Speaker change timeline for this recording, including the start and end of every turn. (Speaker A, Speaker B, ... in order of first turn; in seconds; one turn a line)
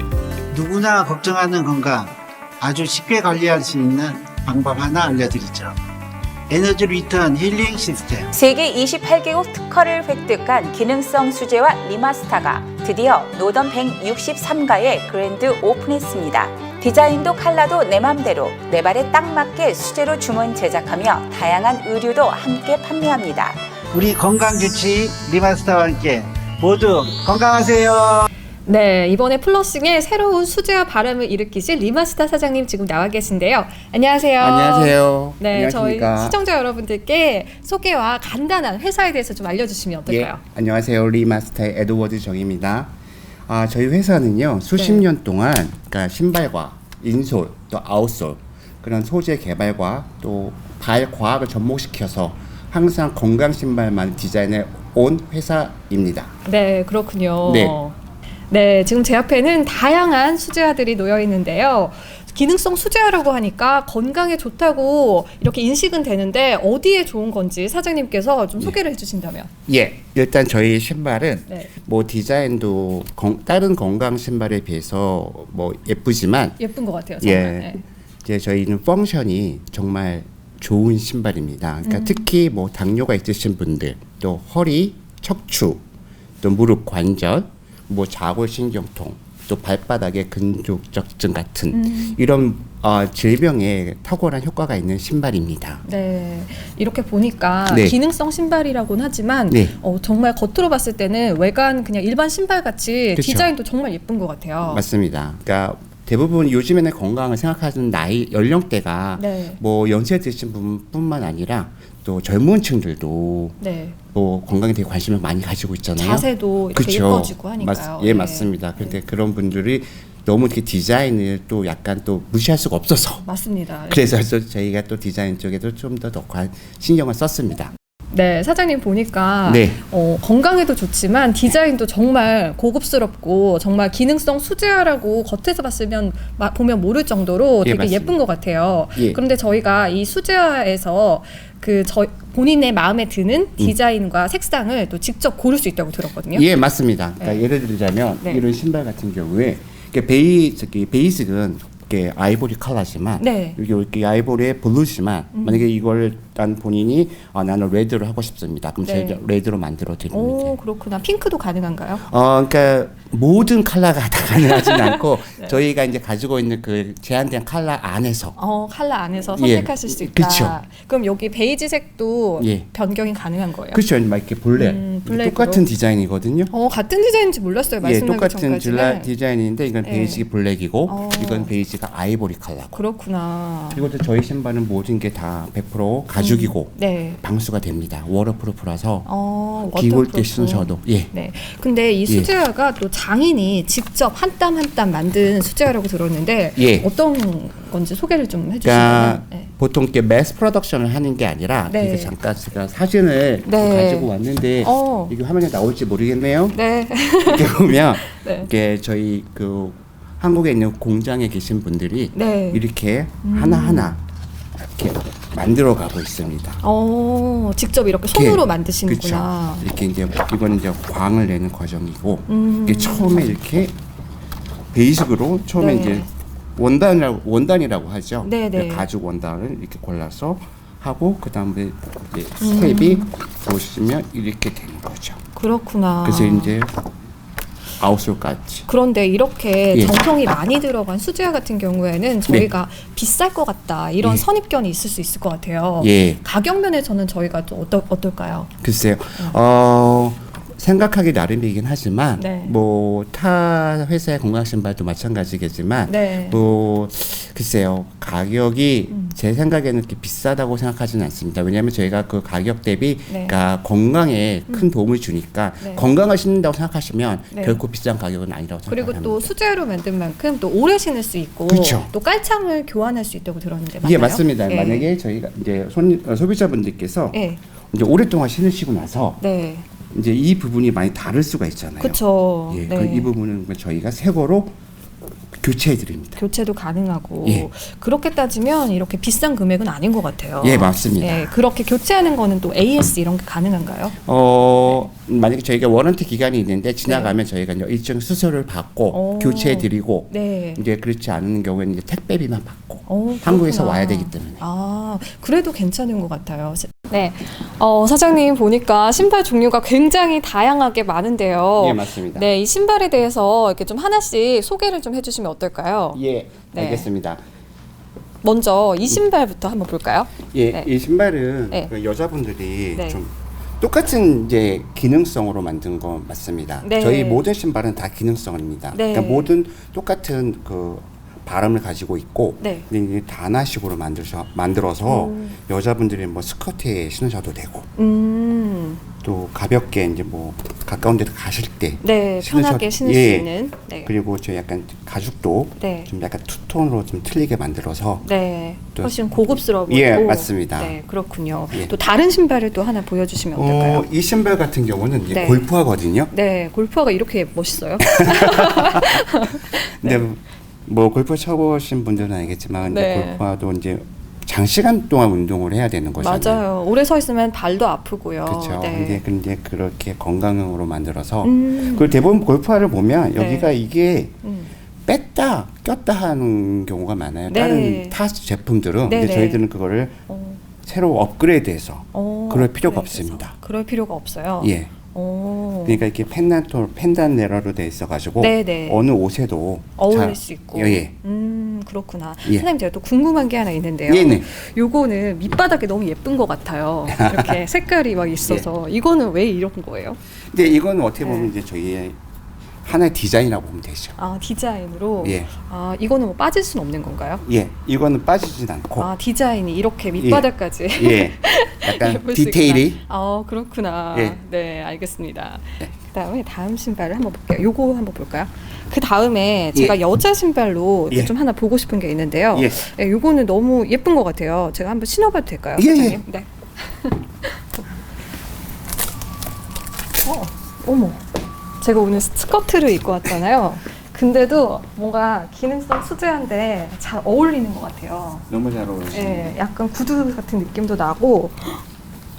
Speaker A: 0.5-5.8
Speaker A: 6.5-8.3
Speaker B: 8.3-23.6
Speaker A: 23.9-28.3
Speaker C: 28.7-40.4
Speaker D: 34.4-36.4
Speaker D: 40.1-42.9
Speaker D: 43.5-56.3
Speaker C: 44.8-45.1
Speaker C: 56.5-58.0
Speaker D: 57.4-57.8
Speaker C: 58.5-69.5
Speaker D: 69.7-76.6
Speaker C: 71.5-71.7
Speaker C: 76.6-77.8
Speaker D: 77.2-85.8
Speaker C: 81.8-82.3
Speaker D: 86.4-95.8
Speaker C: 91.7-92.2
Speaker C: 95.8-104.8
Speaker D: 97.7-98.0
Speaker D: 99.5-99.8
Speaker D: 103.2-103.5
Speaker D: 104.6-113.6
Speaker C: 109.2-109.6
Speaker C: 113.6-114.0
Speaker D: 114.1-123.3
Speaker C: 116.0-119.0
Speaker C: 123.2-124.1
Speaker D: 123.9-127.7
Speaker C: 128.1-146.5
Speaker D: 129.4-129.8
Speaker D: 137.6-138.2
Speaker D: 139.0-139.2
Speaker D: 146.3-160.6
Speaker C: 153.2-153.6
Speaker C: 155.3-155.6
Speaker C: 158.8-159.2
Speaker C: 160.1-162.0
Speaker D: 162.0-168.4
Speaker C: 164.4-165.6
Speaker C: 168.4-173.8
Speaker D: 169.3-170.6
Speaker D: 172.4-172.7
Speaker D: 173.7-176.5
Speaker C: 174.5-175.7
Speaker C: 176.5-179.1
Speaker D: 177.8-182.8
Speaker C: 179.8-180.3
Speaker C: 180.9-181.5
Speaker C: 182.7-183.8
Speaker D: 183.7-189.1
Speaker C: 186.2-187.2
Speaker C: 189.1-199.5
Speaker D: 189.7-191.1
Speaker D: 196.6-196.9
Speaker D: 198.6-206.6
Speaker C: 201.7-202.1
Speaker C: 203.4-204.1
Speaker C: 204.6-205.1
Speaker C: 206.5-208.5
Speaker D: 207.2-214.0
Speaker C: 212.1-212.6
Speaker C: 213.2-214.0
Speaker D: 214.6-216.6
Speaker C: 216.6-219.6
Speaker D: 218.1-223.8
Speaker C: 222.3-223.3
Speaker D: 224.7-235.2
Speaker C: 225.6-226.1
Speaker C: 228.2-228.9
Speaker C: 232.4-233.1
Speaker C: 235.4-236.6
Speaker D: 236.0-236.7
Speaker D: 237.8-238.7
Speaker C: 238.7-248.5
Speaker D: 239.7-240.0
Speaker D: 244.0-244.3
Speaker D: 245.8-246.2
Speaker D: 248.6-269.3
Speaker C: 252.2-252.6
Speaker C: 255.9-256.4
Speaker C: 258.9-259.2
Speaker C: 263.1-263.4
Speaker C: 265.6-265.9
Speaker C: 267.3-267.6
Speaker C: 268.7-274.9
Speaker D: 271.5-271.9
Speaker D: 273.8-277.2
Speaker C: 277.1-277.4
Speaker D: 277.7-279.2
Speaker C: 279.2-279.7
Speaker D: 279.9-284.5
Speaker C: 281.8-283.1
Speaker D: 285.4-286.2
Speaker C: 286.2-293.9
Speaker D: 287.2-287.5
Speaker D: 290.4-291.3
Speaker D: 294.0-304.4
Speaker C: 296.9-297.1
Speaker C: 298.9-300.6
Speaker C: 302.9-316.0
Speaker D: 311.6-312.3
Speaker D: 315.9-317.2
Speaker C: 316.5-316.9
Speaker C: 318.2-320.7
Speaker D: 320.3-337.7
Speaker C: 326.6-327.2
Speaker C: 328.7-329.3
Speaker C: 332.4-332.7
Speaker C: 334.9-335.4
Speaker C: 337.8-338.8
Speaker D: 339.0-343.3
Speaker C: 341.8-343.9
Speaker D: 343.9-348.1
Speaker C: 345.6-345.9
Speaker C: 348.0-353.9
Speaker D: 348.8-350.8
Speaker D: 353.4-356.1
Speaker C: 355.1-355.5
Speaker C: 356.1-360.1
Speaker D: 357.8-358.9
Speaker D: 359.7-366.4
Speaker C: 362.7-363.2
Speaker C: 366.0-369.0
Speaker D: 368.3-374.1
Speaker C: 371.2-371.9
Speaker C: 373.2-373.5
Speaker C: 374.2-374.5
Speaker D: 374.9-380.0
Speaker C: 377.3-378.0
Speaker C: 378.9-379.4
Speaker C: 380.1-380.4
Speaker D: 380.6-383.3
Speaker C: 381.9-385.8
Speaker D: 384.4-384.7
Speaker D: 385.6-390.9
Speaker C: 388.2-388.8
Speaker C: 389.8-400.0
Speaker D: 393.9-394.3
Speaker D: 396.9-397.4
Speaker D: 400.3-402.0
Speaker C: 401.0-401.3
Speaker D: 402.6-404.0
Speaker C: 404.0-407.2
Speaker D: 405.0-405.3
Speaker D: 407.2-408.9
Speaker C: 408.8-427.4
Speaker D: 410.0-412.8
Speaker D: 413.9-414.2
Speaker D: 422.3-422.6
Speaker D: 425.6-426.0
Speaker C: 430.0-431.0
Speaker C: 431.6-438.2
Speaker D: 438.3-439.4
Speaker C: 438.9-441.6